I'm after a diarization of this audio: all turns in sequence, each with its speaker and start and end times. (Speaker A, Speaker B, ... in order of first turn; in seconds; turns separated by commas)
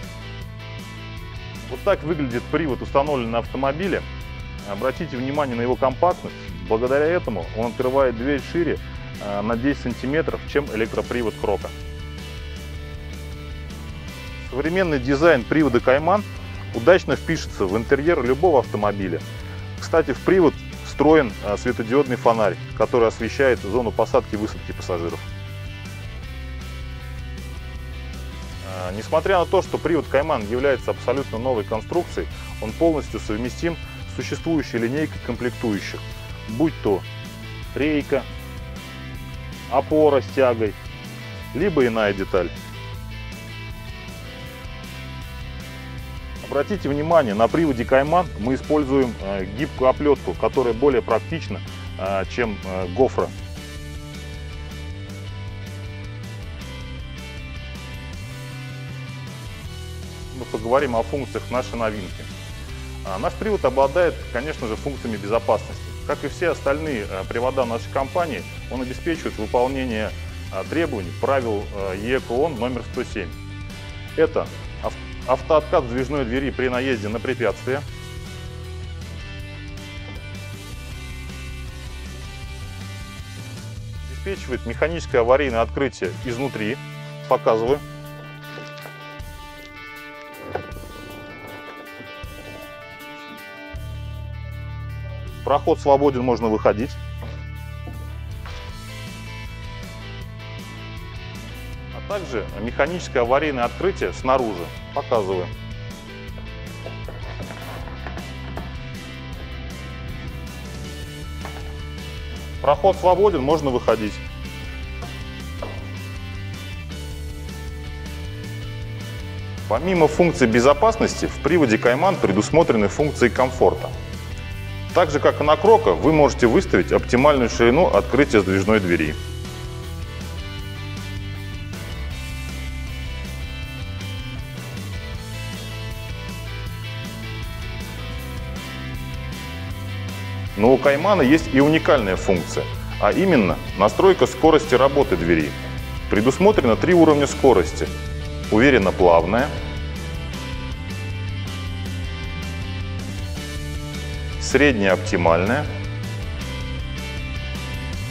Speaker A: 1.7-4.0, Speaker A: 4.6-11.7, Speaker A: 14.4-19.2, Speaker A: 19.8-25.2, Speaker A: 28.6-37.0, Speaker A: 37.7-38.3, Speaker A: 39.7-40.8, Speaker A: 41.5-42.5, Speaker A: 46.4-53.3, Speaker A: 60.3-62.3, Speaker A: 63.0-73.3, Speaker A: 74.1-77.8, Speaker A: 84.0-87.8, Speaker A: 95.4-97.0, Speaker A: 101.9-105.5, Speaker A: 112.6-114.2, Speaker A: 119.7-123.9, Speaker A: 124.9-129.2, Speaker A: 140.5-145.6, Speaker A: 146.1-147.9, Speaker A: 148.5-149.5, Speaker A: 154.4-155.7